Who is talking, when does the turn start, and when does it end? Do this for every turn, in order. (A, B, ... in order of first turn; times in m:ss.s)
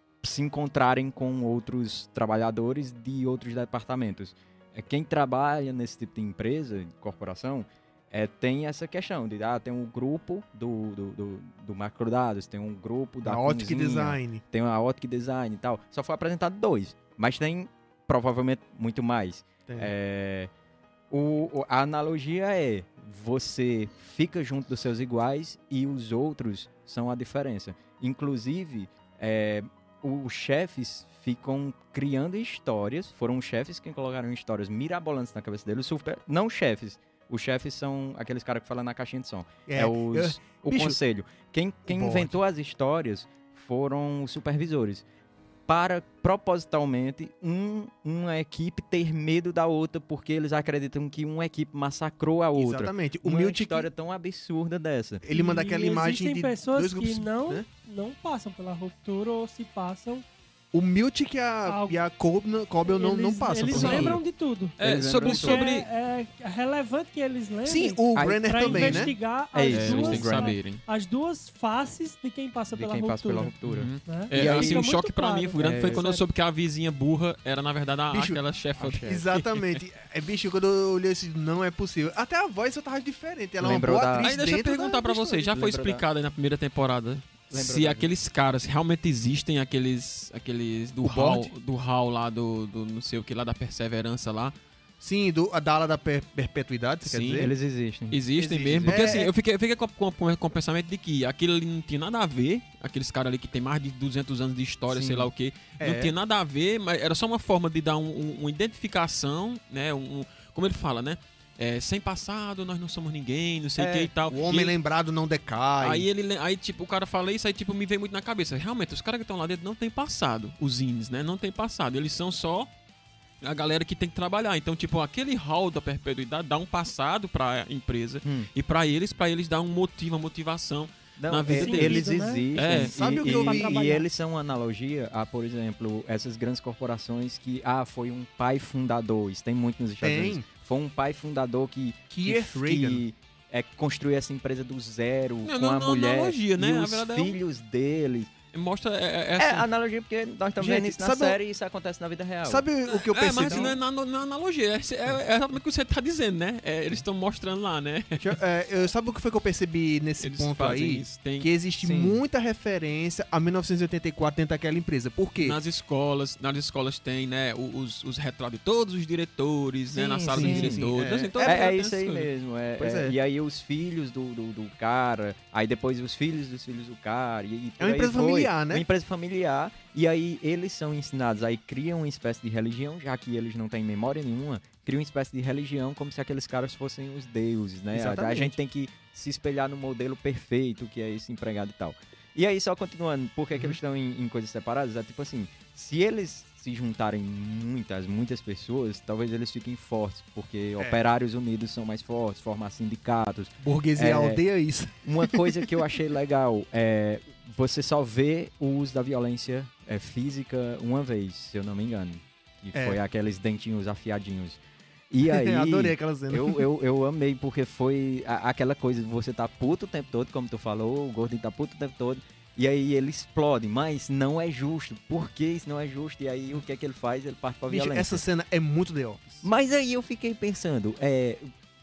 0:00.2-0:20.5 A
0:13.2-0:14.4 B
0:19.7-0:19.9 B
0:21.1-0:45.0 A
0:39.7-0:41.0 B
0:41.9-0:42.3 B
0:45.7-0:55.2 A
0:52.6-0:53.9 B
0:55.2-0:57.6 B
0:55.3-1:00.2 C
1:00.7-1:04.2 B
1:01.7-1:02.0 C
1:02.8-1:13.5 C
1:03.7-1:04.2 D
1:03.8-1:04.2 A
1:04.8-1:05.9 D
1:04.8-1:05.8 A
1:07.6-1:09.1 B
1:08.2-1:10.6 A
1:09.7-1:10.8 D
1:12.7-1:14.9 A
1:13.7-1:19.8 D
1:14.1-1:16.2 C
1:15.6-1:16.0 A
1:18.1-1:18.4 B
1:18.8-1:19.3 A
1:19.0-1:25.5 B
1:23.6-1:24.4 A
1:24.1-1:34.6 D
1:25.5-1:26.0 A
1:27.5-1:28.1 A
1:31.0-1:31.5 B
1:35.0-1:37.5 B
1:37.0-1:37.5 D
1:37.3-1:39.0 A
1:38.1-1:54.7 D
1:38.5-1:39.3 B
1:44.9-1:45.3 A
1:45.8-1:46.1 B
1:53.8-1:54.0 A
1:53.9-1:56.1 B
1:55.8-2:02.7 D
2:03.4-2:12.0 D
2:08.2-2:08.5 A
2:11.2-2:28.3 A
2:11.5-2:12.5 C
2:12.6-2:13.0 D
2:12.7-2:14.0 B
2:13.1-2:14.0 C
2:20.0-2:20.4 B
2:22.1-2:23.0 B
2:25.4-2:27.4 D
2:28.5-2:29.7 D
2:29.4-2:32.7 A
2:30.6-2:31.4 B
2:32.4-2:33.8 B
2:32.9-2:38.4 D
2:33.2-2:33.8 A
2:38.2-2:45.6 B
2:40.2-2:41.5 D
2:41.8-2:42.2 A
2:45.4-2:52.3 D
2:50.0-3:24.4 A
2:50.2-2:51.7 B
2:52.8-2:53.2 B
2:57.8-2:58.8 B
3:07.9-3:08.6 B
3:23.6-3:25.7 B
3:25.0-3:34.6 A
3:35.1-3:48.2 A
3:35.3-3:36.6 B
3:47.7-3:49.4 B
3:49.4-3:51.5 A